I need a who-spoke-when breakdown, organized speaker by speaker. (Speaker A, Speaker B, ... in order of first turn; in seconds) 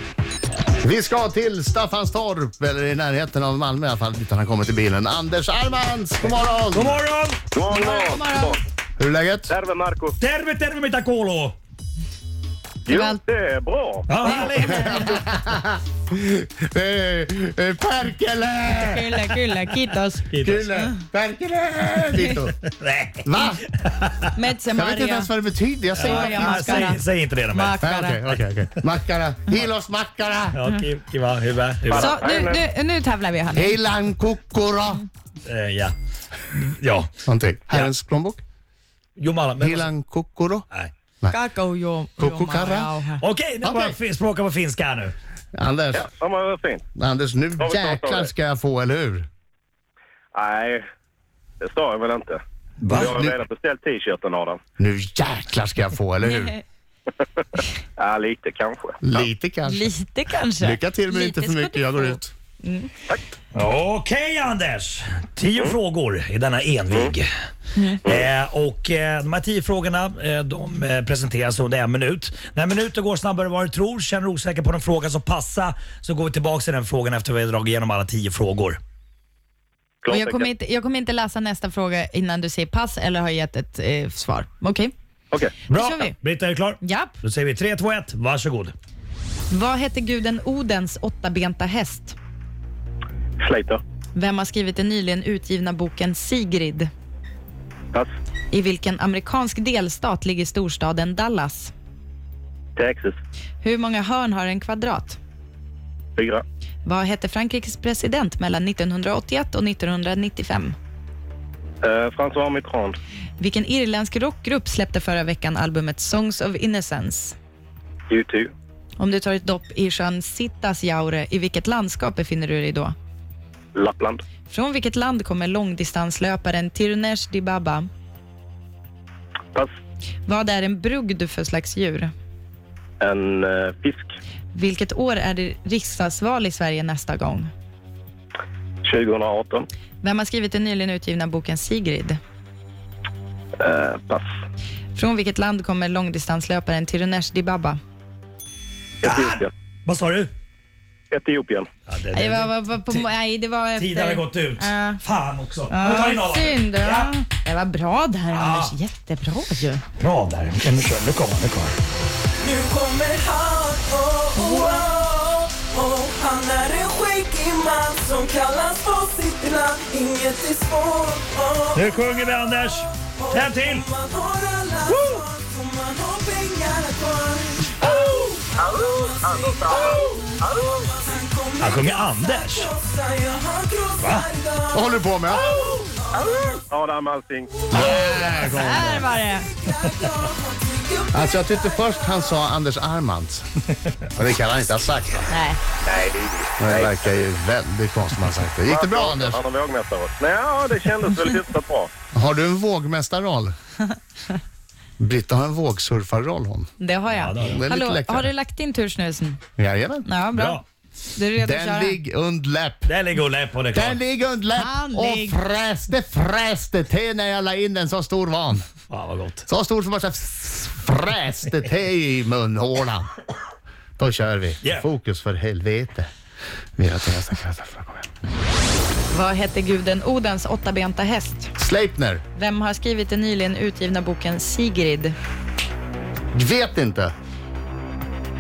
Speaker A: 0.8-7.0, 9.0-9.5, 14.7-19.3, 20.4-22.5, 23.2-23.6, 24.7-26.9, 27.8-30.6, 33.5-35.0, 37.3-38.4, 39.6-40.7, 42.2-43.0, 43.6-44.0, 45.5-46.1, 47.0-49.3, 52.9-53.4, 54.8-56.6, 59.0-59.9, 60.6-62.3, 184.7-185.5, 187.7-189.1, 191.1-193.5, 194.1-195.3, 196.6-199.4, 202.1-203.5, 205.0-206.7, 207.4-208.3, 209.6-210.1, 211.4-212.9, 213.7-218.7, 219.5-223.1, 224.0-226.1, 226.8-228.1, 231.6-232.2, 236.3-237.1
Speaker B: 6.7-7.4, 10.2-11.6, 14.1-15.2, 20.3-20.7, 22.4-24.3, 25.9-28.4, 30.5-32.5, 35.5-35.9, 36.5-37.1, 39.2-39.9, 43.2-45.1, 52.8-53.2, 63.5-67.3, 68.1-78.8, 85.7-88.7, 149.0-150.3, 151.9-153.1, 153.8-157.1, 158.3-158.7, 160.0-161.8, 171.7-173.8, 181.6-182.7, 184.0-184.3, 207.1-207.6, 210.3-210.7, 212.9-214.0, 218.9-219.4
Speaker C: 7.5-8.6, 9.5-10.2, 12.9-14.5, 31.9-32.7, 45.9-46.8, 47.6-48.3, 50.3-50.8, 51.6-54.6, 58.0-59.2, 80.0-80.5, 85.3-85.7, 93.4-93.8, 102.8-103.2, 106.2-106.4, 111.8-113.0, 118.1-118.5, 123.8-124.2, 133.0-134.1, 138.8-139.7, 143.6-144.3, 149.0-149.5, 151.1-151.7, 179.2-180.1, 186.2-188.0, 195.8-197.3, 198.7-201.9
Speaker D: 7.7-8.6, 12.9-13.2, 14.2-15.2, 18.7-20.3, 24.4-25.3, 26.0-27.0, 27.5-28.3, 32.0-33.8, 41.3-43.2, 59.7-63.0, 80.1-84.9, 85.7-86.1, 86.8-87.2, 89.5-92.2, 94.2-96.9, 98.5-101.7, 103.6-105.2, 106.8-110.8, 113.4-117.4, 119.0-123.0, 124.5-127.9, 130.3-132.1, 134.5-137.5, 140.0-142.2, 144.9-147.8, 152.1-155.0, 155.7-159.8, 188.6-189.5, 195.3-195.6, 206.8-209.4, 210.1-210.6, 211.2-212.0, 214.5-215.4, 229.1-231.5, 232.3-235.2
Speaker E: 162.4-186.5, 187.7-192.4